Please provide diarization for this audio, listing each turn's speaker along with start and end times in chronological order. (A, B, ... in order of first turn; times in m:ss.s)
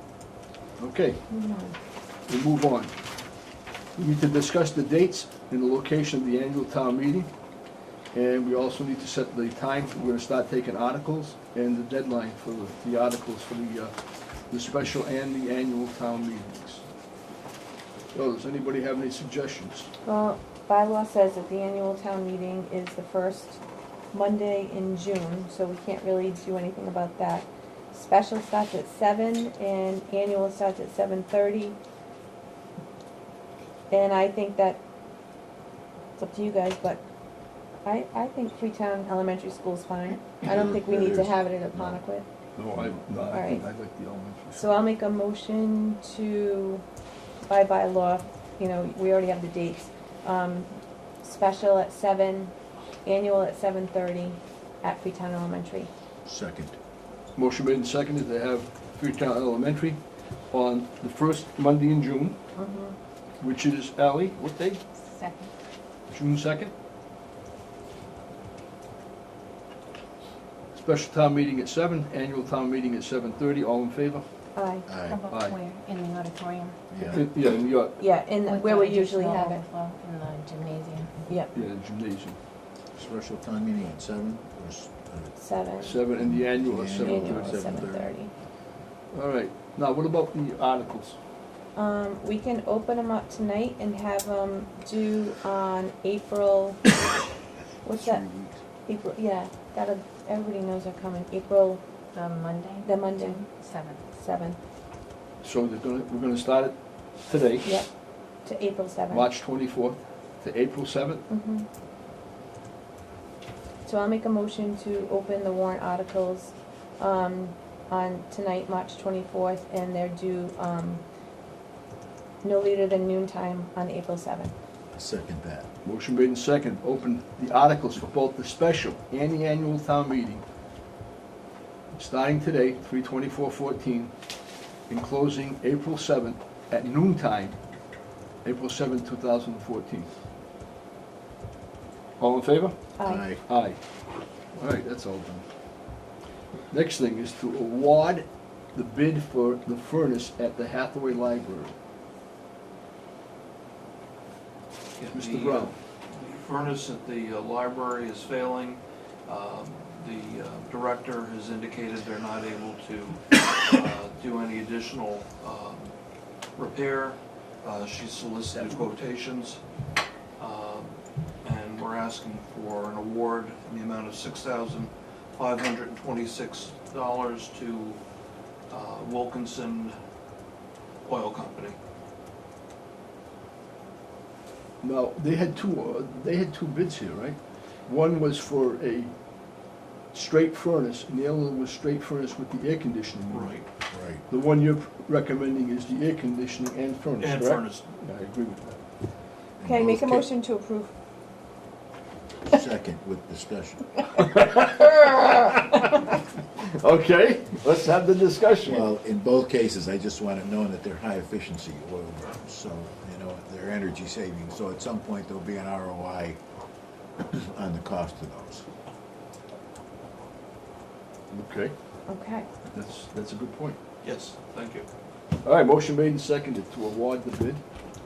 0:00.8-0:01.2 A
0:01.3-0:01.7 B
0:02.3-0:02.9 A
0:04.0-0:07.3 A
0:08.1-0:16.8 A
0:18.1-0:19.9 A
0:20.0-0:23.6 B
0:24.1-0:31.8 B
0:33.9-0:34.8 B
0:36.2-0:37.0 B
0:37.8-0:42.3 B
0:40.4-0:42.0 C
0:42.6-0:44.8 A
0:43.3-0:43.6 B
0:44.6-0:46.8 B
0:47.5-0:50.7 B
0:51.2-0:52.5 B
0:53.0-0:55.9 B
0:56.2-0:56.8 C
0:57.4-1:00.0 A
1:00.5-1:02.4 A
1:02.6-1:03.0 B
1:03.4-1:04.8 A
1:05.0-1:05.5 D
1:06.1-1:06.7 A
1:10.7-1:14.2 A
1:14.6-1:15.0 B
1:14.9-1:15.2 C
1:15.0-1:17.1 D
1:15.3-1:15.6 A
1:16.9-1:17.3 C
1:17.1-1:18.0 A
1:18.0-1:19.6 B
1:18.4-1:21.2 D
1:21.5-1:22.4 A
1:23.0-1:25.3 C
1:25.4-1:26.0 B
1:25.8-1:27.6 A
1:26.0-1:28.2 C
1:27.0-1:28.3 B
1:29.1-1:31.2 A
1:31.8-1:36.9 B
1:37.8-1:38.3 B
1:37.9-1:38.6 C
1:38.9-1:41.8 B
1:42.1-1:44.0 D
1:42.8-1:43.5 B
1:44.1-1:44.6 B
1:45.4-1:47.7 A
1:48.4-1:49.3 B
1:49.1-1:51.2 A
1:51.3-1:51.7 B
1:53.8-2:01.0 B
2:02.4-2:04.5 B
2:04.9-2:05.7 C
2:05.8-2:10.4 A
2:11.9-2:14.1 A
2:14.9-2:17.6 A
2:18.4-2:20.1 A
2:22.2-2:22.8 A
2:23.0-2:23.3 B
2:23.0-2:23.4 C
2:23.4-2:23.8 A
2:24.5-2:25.5 A
2:26.7-2:31.8 A
2:35.0-2:45.9 E
2:35.1-2:35.8 A
2:46.6-2:49.6 E
2:48.5-2:48.9 A
2:50.4-2:58.0 E
2:58.7-3:00.0 E
3:01.1-3:01.8 E
3:04.8-3:09.1 A
3:10.1-3:13.6 A
3:13.3-3:13.7 E
3:13.9-3:14.2 C
3:14.3-3:18.9 A
3:17.2-3:17.9 E
3:19.6-3:20.2 C
3:19.6-3:20.9 B
3:22.4-3:24.0 C
3:24.5-3:25.8 A
3:26.6-3:28.9 A
3:28.6-3:36.4 C
3:37.2-3:38.6 C
3:41.3-3:41.7 A
3:42.1-3:42.5 B
3:42.7-3:43.8 A
3:44.0-3:44.9 E
3:45.4-3:47.6 A